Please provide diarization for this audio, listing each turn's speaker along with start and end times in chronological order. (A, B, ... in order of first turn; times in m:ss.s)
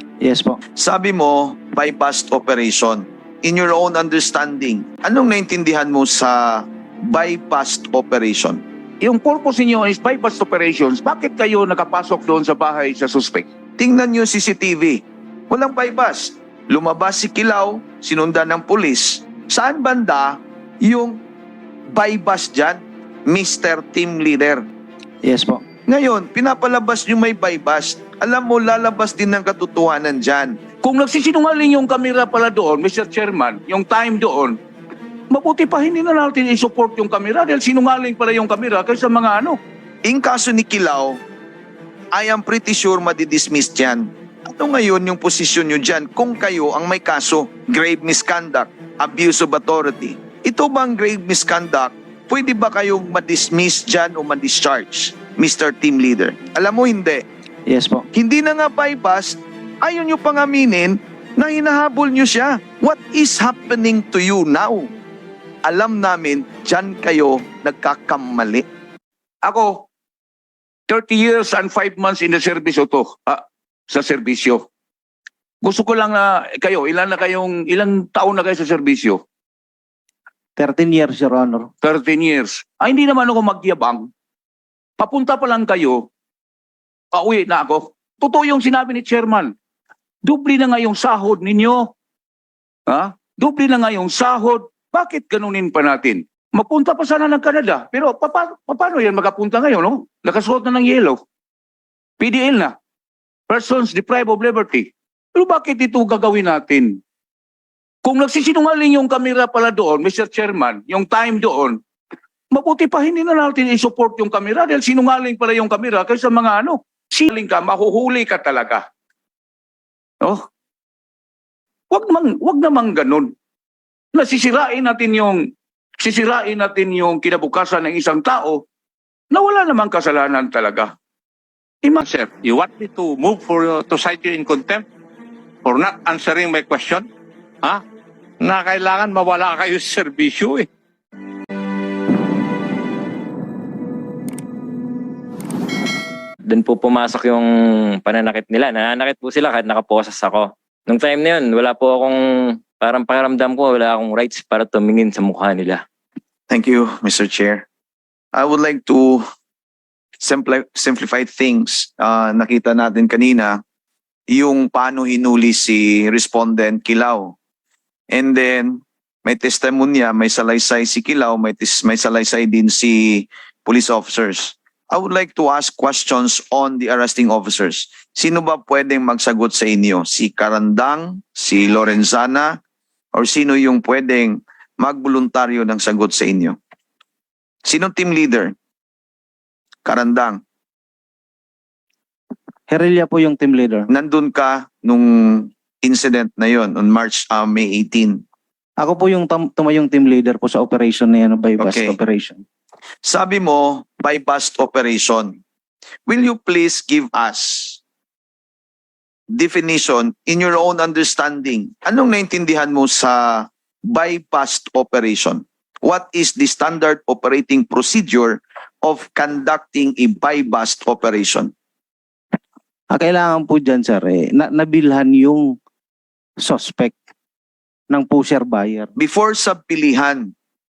0:00.2-0:00.6 A
0:00.8-0:08.6 B
0:09.0-0:13.5 C
0:13.8-0:21.2 B
0:21.9-0:24.6 B
0:25.3-0:25.6 A
0:25.9-0:30.6 B
0:30.8-0:34.6 C
0:35.3-0:39.6 C
0:40.1-0:41.2 B
0:42.2-0:57.2 B
0:57.7-0:58.1 A
0:58.1-1:04.9 B
1:05.7-1:08.6 B
1:09.4-1:09.8 C
1:10.9-1:14.6 C
1:15.6-1:19.2 C
1:20.6-1:21.7 A
1:21.8-1:24.1 C
1:25.0-1:26.0 C
1:27.1-1:29.5 C
1:30.2-1:31.9 C
1:32.9-1:41.2 C
1:42.2-1:42.7 C
1:43.5-1:47.0 C
1:48.0-1:51.8 C
1:52.5-1:58.8 C
2:01.9-2:03.3 C
2:04.2-2:05.4 C
2:06.0-2:08.6 C
2:09.3-2:10.9 C
2:12.0-2:14.8 D
2:15.6-2:17.1 D
2:18.4-2:20.7 D
2:26.5-2:27.5 E
2:28.0-2:35.8 E
2:36.5-2:37.6 B
2:38.3-2:39.2 B
2:40.2-2:43.6 B
2:44.3-2:47.4 B
2:48.1-3:02.6 B
3:03.2-3:06.6 B
3:07.7-3:08.5 B
3:09.9-3:10.4 B
3:12.7-3:13.9 A
3:13.9-3:18.2 B
3:18.8-3:22.4 A
3:21.6-3:22.0 B
3:23.0-3:25.4 B
3:26.1-3:27.8 B
3:29.3-3:41.5 B
3:43.0-3:45.6 A
3:46.4-3:47.0 A
3:47.9-3:48.9 A
3:49.0-3:50.3 B